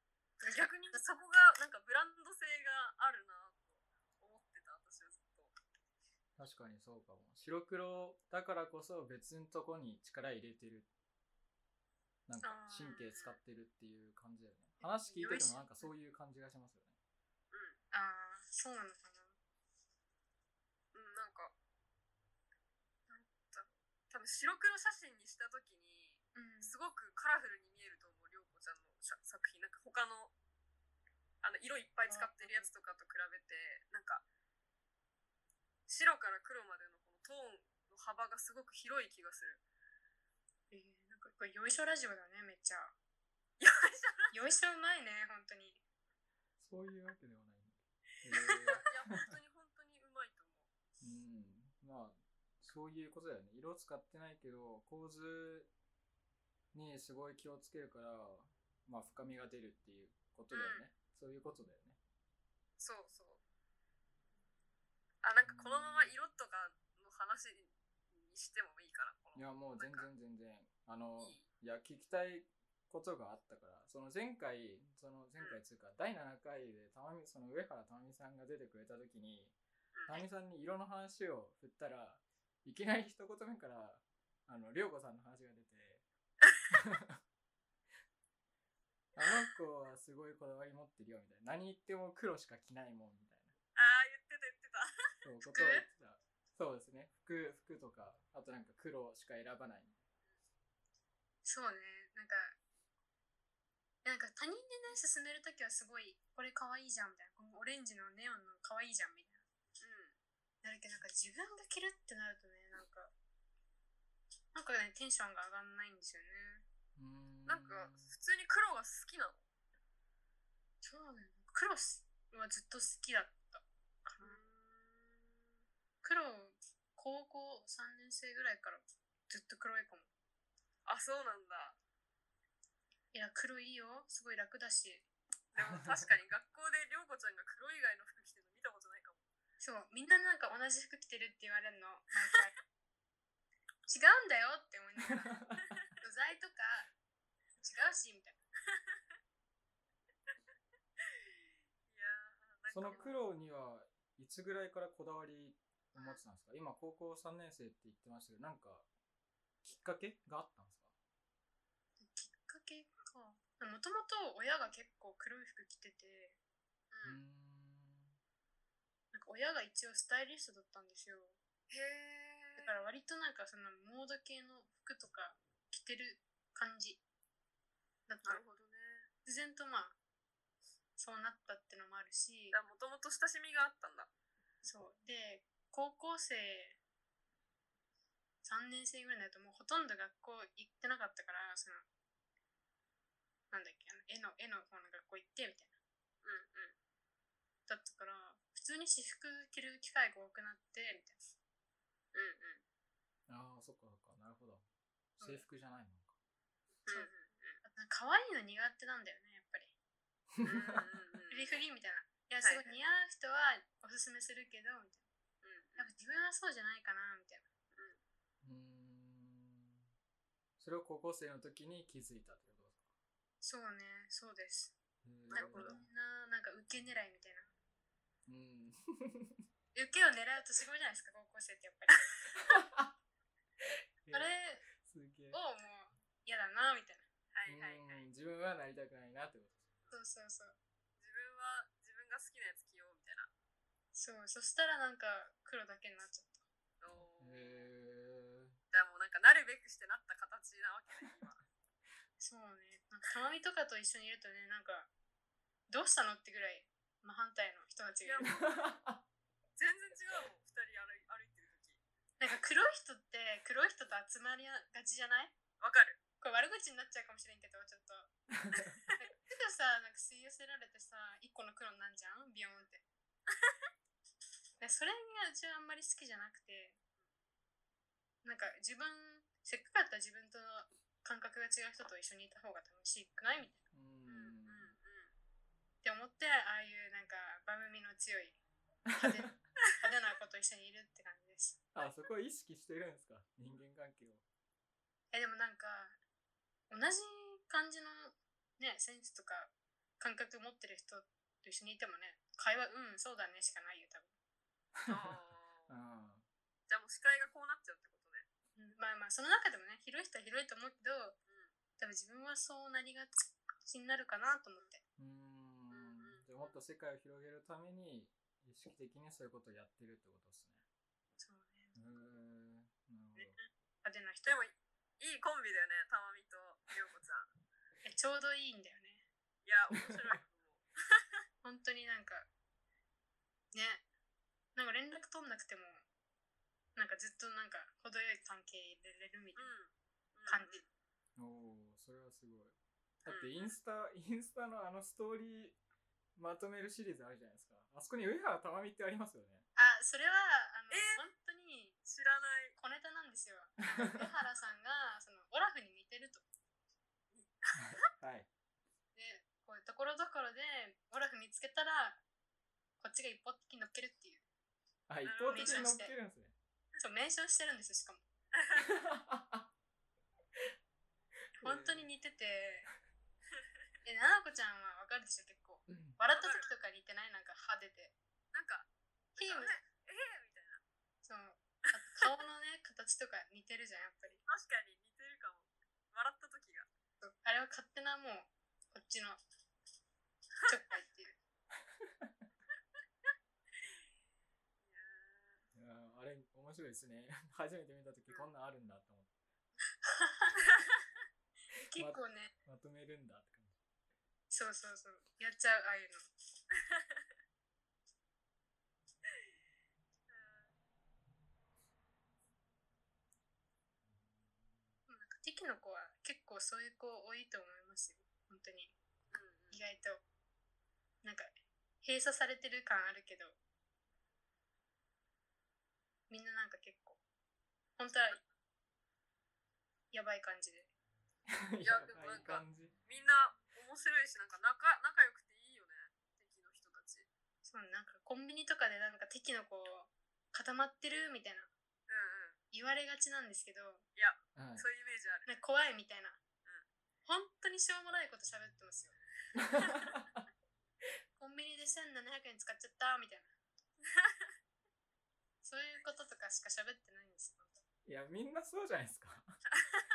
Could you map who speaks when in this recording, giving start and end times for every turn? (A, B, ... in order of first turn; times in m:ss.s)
0:00.4-0:01.0 A
0:00.4-0:05.5 B
0:06.4-0:10.9 C
0:12.3-0:17.0 C
0:12.4-0:13.1 A
0:14.8-0:15.9 A
0:17.5-0:17.8 B
0:17.9-0:19.3 A
0:20.9-0:21.5 B
0:23.1-0:30.3 B
0:26.3-0:26.7 A
0:31.4-0:34.2 B
0:32.0-0:32.7 A
0:35.9-0:39.6 B
0:40.7-0:42.9 A
0:43.6-0:44.3 B
0:44.3-0:45.8 A
0:46.6-0:49.3 C
0:48.4-0:48.8 A
0:48.9-0:50.7 B
0:51.0-0:55.7 C
0:56.7-1:02.0 C
1:00.5-1:00.9 B
1:02.8-1:03.4 B
1:05.2-1:10.1 B
1:05.4-1:06.1 C
1:09.3-1:19.5 C
1:11.2-1:11.4 B
1:20.0-1:20.2 B
1:20.1-1:26.0 C
1:26.7-1:27.2 C
1:29.2-1:33.5 C
1:33.8-1:34.9 B
1:35.2-1:40.0 C
1:35.4-1:35.9 A
1:41.4-1:42.5 A
1:44.0-1:49.4 A
1:49.8-1:50.1 B
1:50.6-1:53.1 A
1:54.5-1:56.6 A
1:57.0-1:58.1 C
1:57.5-1:59.4 B
2:00.8-2:04.4 A
2:04.2-2:05.4 B
2:06.0-2:10.1 A
2:10.9-2:11.8 B
2:13.1-2:15.0 A
2:15.5-2:19.2 B
2:15.7-2:16.0 C
2:19.6-2:22.5 A
2:23.9-2:25.4 A
2:25.2-2:25.6 C
2:26.0-2:26.9 A
2:27.6-2:28.4 A
2:28.7-2:29.0 B
2:31.9-2:33.2 B
2:32.7-2:38.9 C
2:35.9-2:36.2 B
2:39.6-2:40.9 C
2:42.0-2:46.4 A
2:46.9-2:47.2 B
2:47.0-2:48.2 C
2:49.1-2:51.4 A
2:51.7-2:52.7 B
2:52.6-2:57.0 A
2:58.1-2:58.4 A
2:58.2-2:59.1 B
2:59.2-2:59.9 A
3:01.0-3:02.6 A
3:02.5-3:04.1 B
3:04.6-3:06.8 A
3:08.4-3:11.8 A
3:13.5-3:15.7 A
3:16.2-3:16.7 B
3:17.7-3:21.2 A
3:22.1-3:22.6 B
3:23.3-3:24.6 C
3:25.2-3:25.4 A
3:25.2-3:26.1 C
3:26.9-3:27.6 B
3:27.6-3:29.7 A
3:30.3-3:30.8 C
3:30.4-3:31.5 B
3:31.3-3:35.0 A
3:32.4-3:32.8 B
3:35.4-3:35.9 B
3:35.8-3:37.4 A
3:37.7-3:38.0 B
3:38.4-3:39.8 C
3:40.6-3:42.8 C
3:43.4-3:44.8 A
3:45.0-3:45.9 C
3:45.3-3:45.8 B
3:45.3-3:47.5 A
3:48.3-3:49.4 C
3:49.7-3:52.0 A
3:52.5-3:52.9 C
3:53.6-3:55.4 C
3:54.1-3:54.6 A
3:55.3-3:57.0 A
3:57.3-3:58.0 B
3:57.4-3:59.7 C
3:59.9-4:00.6 A
4:01.0-4:03.3 B
4:03.9-4:06.4 A
4:06.8-4:07.7 B
4:07.2-4:08.6 C
4:08.7-4:11.4 B
4:12.2-4:14.9 A
4:15.7-4:18.3 A
4:18.0-4:18.5 B
4:18.2-4:19.0 C
4:19.6-4:21.8 B
4:22.2-4:25.4 A
4:25.6-4:26.0 B
4:26.2-4:28.1 A
4:28.4-4:28.7 C
4:28.6-4:28.9 B
4:28.9-4:32.8 A
4:34.6-4:36.8 A
4:38.2-4:43.6 A
4:43.7-4:44.8 C
4:44.1-4:45.1 B
4:45.8-4:48.4 A
4:48.9-4:49.3 C
4:49.0-4:51.6 A
4:51.7-4:54.2 C
4:55.1-4:56.0 A
4:56.7-5:04.1 A
5:04.8-5:05.2 C
5:04.9-5:05.7 B
5:05.7-5:06.2 C
5:06.7-5:08.2 B
5:08.6-5:11.2 A
5:11.8-5:14.8 A
5:15.0-5:20.6 C
5:15.7-5:16.6 B
5:21.2-5:21.8 A
5:21.7-5:23.4 C
5:23.1-5:24.4 A
5:24.2-5:27.3 B
5:27.8-5:29.0 A
5:29.4-5:30.6 B
5:31.4-5:32.3 A
5:33.5-5:33.8 A
5:34.5-5:35.8 A
5:36.8-5:39.5 A
5:39.4-5:40.7 B
5:40.3-5:40.6 A
5:41.2-5:45.6 C
5:43.1-5:43.5 B
5:46.2-5:49.4 C
5:49.6-5:51.8 A
5:50.7-5:51.0 B
5:51.8-5:52.6 B
5:52.6-5:56.2 A
5:57.1-5:57.5 B
5:57.6-5:58.3 C
5:59.0-6:02.0 A
6:02.8-6:04.2 A
6:04.9-6:06.3 C
6:05.0-6:05.7 B
6:05.3-6:05.9 A
6:06.8-6:08.0 A
6:08.3-6:08.7 B
6:08.6-6:09.5 C
6:11.4-6:11.9 C
6:11.4-6:12.7 A
6:13.8-6:17.9 A
6:15.7-6:16.0 C
6:16.1-6:16.5 B
6:18.3-6:20.6 B
6:19.2-6:19.6 A
6:21.0-6:24.2 A
6:24.3-6:26.7 B
6:27.0-6:29.2 A
6:30.5-6:31.2 A
6:31.8-6:32.1 C
6:34.6-6:35.4 B
6:35.5-6:39.1 C
6:39.8-6:40.4 A
6:41.7-6:42.3 A
6:41.7-6:43.6 C
6:44.3-6:46.0 A
6:46.7-6:47.0 B
6:50.1-6:50.5 B
6:54.9-6:58.7 A
6:59.1-6:59.6 B
6:59.5-7:00.0 A
7:01.0-7:01.3 A
7:01.8-7:03.4 A
7:06.1-7:07.0 A
7:07.8-7:08.2 A
7:09.9-7:10.7 A
7:11.3-7:12.7 C
7:11.6-7:17.1 B
7:17.4-7:21.5 A
7:21.9-7:22.4 B
7:22.5-7:23.8 A
7:24.0-7:25.3 B
7:24.3-7:24.6 C
7:25.2-7:26.2 A
7:27.0-7:29.0 A
7:29.4-7:30.2 C
7:31.2-7:33.3 A
7:33.9-7:34.3 B
7:35.4-7:37.6 A
7:37.8-7:39.4 C